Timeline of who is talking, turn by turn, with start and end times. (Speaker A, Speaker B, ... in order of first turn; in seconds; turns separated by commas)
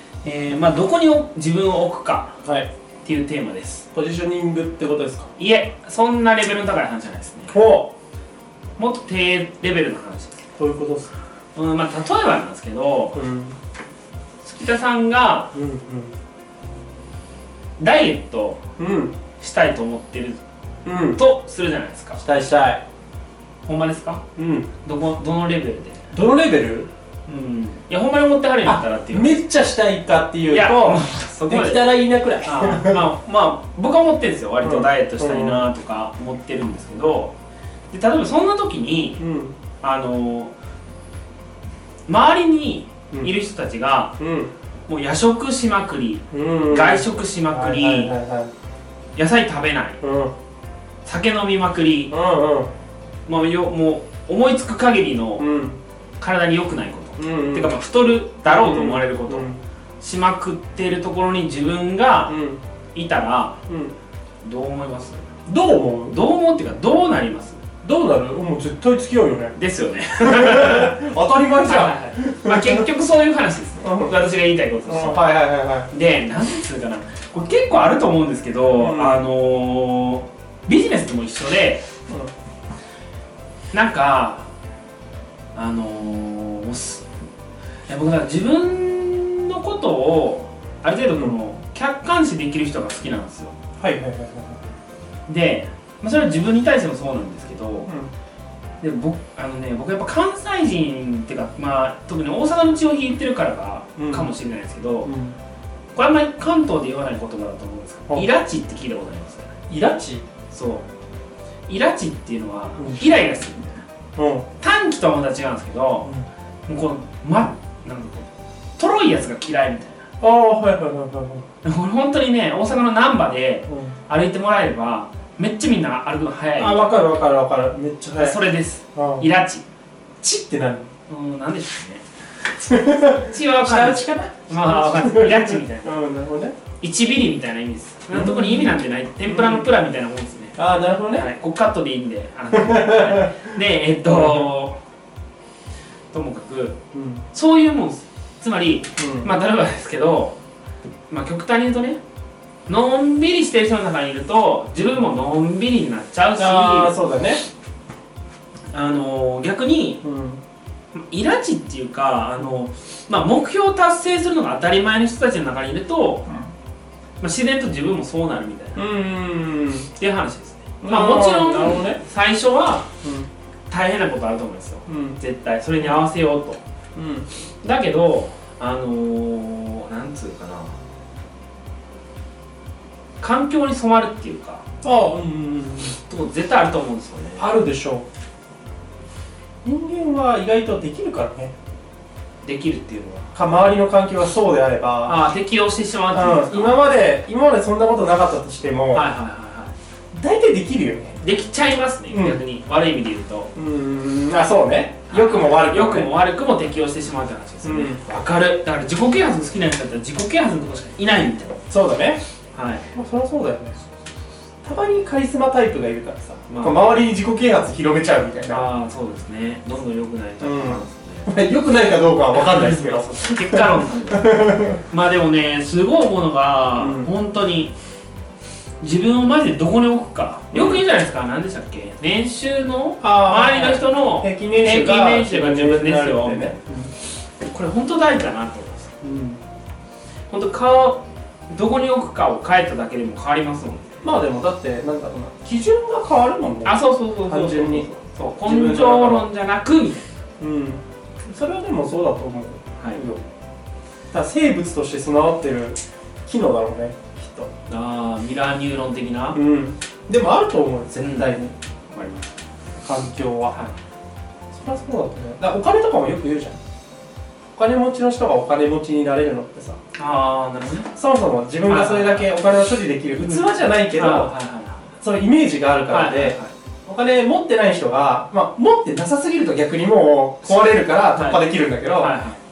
Speaker A: 0.2-2.4, Speaker B: 2.4-2.7, Speaker A: 3.0-3.9, Speaker B: 3.9-5.3, Speaker A: 5.4-7.6, Speaker B: 7.5-7.9, Speaker A: 8.8-10.4, Speaker B: 10.6-11.1, Speaker A: 11.5-13.2, Speaker B: 13.1-13.6, Speaker A: 14.4-15.5, Speaker B: 15.5-16.1, Speaker A: 17.8-18.6, Speaker B: 18.8-19.1, Speaker A: 19.4-20.4, Speaker B: 20.8-21.2, Speaker A: 21.1-22.2, Speaker B: 22.2-22.8, Speaker A: 23.6-24.2, Speaker B: 24.4-24.7, Speaker A: 24.8-26.1, Speaker B: 26.1-26.9, Speaker A: 27.2-29.4, Speaker B: 28.6-33.1, Speaker A: 30.5-37.3, Speaker B: 34.6-35.7, Speaker A: 37.9-39.2, Speaker B: 39.2-39.5, Speaker A: 39.8-40.5, Speaker A: 42.1-44.1, Speaker B: 44.2-44.5, Speaker A: 44.9-48.1, Speaker B: 46.3-48.5, Speaker A: 49.1-50.0, Speaker B: 50.0-50.3, Speaker A: 51.0-52.1, Speaker B: 52.1-52.7, Speaker A: 53.2-55.5, Speaker B: 55.4-55.8, Speaker A: 56.2-62.4, Speaker B: 57.2-57.7, Speaker B: 58.4-59.6, Speaker B: 62.3-62.6, Speaker A: 62.9-63.6, Speaker B: 63.7-63.9, Speaker A: 64.4-65.2, Speaker B: 65.5-66.2, Speaker A: 66.1-67.6, Speaker B: 67.8-69.6, Speaker A: 69.5-71.0, Speaker B: 70.2-72.9, Speaker A: 71.6-75.3, Speaker B: 73.8-74.2, Speaker B: 74.8-75.9, Speaker A: 75.9-81.8, Speaker B: 78.7-79.3, Speaker A: 83.7-84.5, Speaker A: 85.5-87.1, Speaker A: 87.9-93.5, Speaker B: 93.8-94.6, Speaker A: 95.3-97.9, Speaker A: 98.8-105.1, Speaker B: 104.0-104.3, Speaker B: 105.0-105.3, Speaker A: 105.9-109.5, Speaker B: 109.7-110.2, Speaker A: 110.5-110.9, Speaker A: 111.7-113.8, Speaker B: 114.2-114.5, Speaker A: 114.6-116.1, Speaker A: 116.7-120.0, Speaker B: 120.2-121.4, Speaker A: 121.6-126.9, Speaker B: 123.7-123.9, Speaker B: 126.6-128.4, Speaker A: 128.2-129.6, Speaker B: 128.9-129.3, Speaker B: 130.2-130.9, Speaker A: 131.1-132.0, Speaker A: 132.6-135.9, Speaker B: 132.7-136.6, Speaker A: 136.8-140.6, Speaker B: 138.1-139.7, Speaker B: 140.6-141.3, Speaker A: 141.1-144.8, Speaker B: 142.5-143.5, Speaker B: 144.1-144.5, Speaker A: 146.1-146.8, Speaker B: 146.9-147.2, Speaker A: 147.3-150.4, Speaker B: 149.0-149.3, Speaker A: 151.1-152.0, Speaker A: 152.7-156.9, Speaker B: 156.3-157.4, Speaker A: 158.7-160.0, Speaker B: 160.0-160.4, Speaker A: 160.9-166.3, Speaker A: 167.2-168.8, Speaker B: 168.8-169.9, Speaker A: 169.9-172.9, Speaker B: 170.8-172.0, Speaker B: 173.0-173.3, Speaker A: 173.7-176.6, Speaker B: 174.9-175.2, Speaker B: 176.9-177.3, Speaker A: 177.6-180.8, Speaker A: 183.2-184.6, Speaker B: 184.8-185.9, Speaker A: 186.0-187.5, Speaker B: 187.4-188.1, Speaker B: 189.6-191.5, Speaker A: 192.4-193.3, Speaker B: 193.3-195.2, Speaker A: 195.1-196.9, Speaker B: 196.1-199.1, Speaker A: 198.9-199.7, Speaker B: 200.1-201.2, Speaker A: 201.2-203.5, Speaker B: 202.1-202.4, Speaker B: 203.5-206.1, Speaker A: 205.1-211.6, Speaker B: 207.6-208.0, Speaker B: 211.7-212.2, Speaker A: 212.5-212.9, Speaker B: 212.9-213.8, Speaker B: 214.6-218.6, Speaker A: 216.5-217.0, Speaker A: 218.5-221.3, Speaker B: 220.4-224.8, Speaker A: 222.3-227.7, Speaker B: 226.8-227.1, Speaker A: 228.8-236.6, Speaker B: 230.5-230.8, Speaker B: 233.0-236.9, Speaker A: 237.4-238.9, Speaker B: 239.0-239.4, Speaker A: 240.3-244.0, Speaker B: 244.0-247.9, Speaker A: 246.6-250.1, Speaker B: 248.4-249.3, Speaker B: 250.4-253.2, Speaker A: 252.8-253.0, Speaker B: 254.1-257.5, Speaker A: 257.7-259.4, Speaker B: 259.3-261.5, Speaker A: 261.0-261.4, Speaker A: 261.9-262.3, Speaker B: 262.8-263.6, Speaker B: 264.5-266.6, Speaker B: 267.5-269.8, Speaker A: 269.9-270.9, Speaker B: 270.9-274.3, Speaker A: 271.7-272.3, Speaker A: 273.2-274.9, Speaker B: 275.0-282.1, Speaker A: 275.9-276.5, Speaker A: 280.4-281.4, Speaker A: 281.9-282.4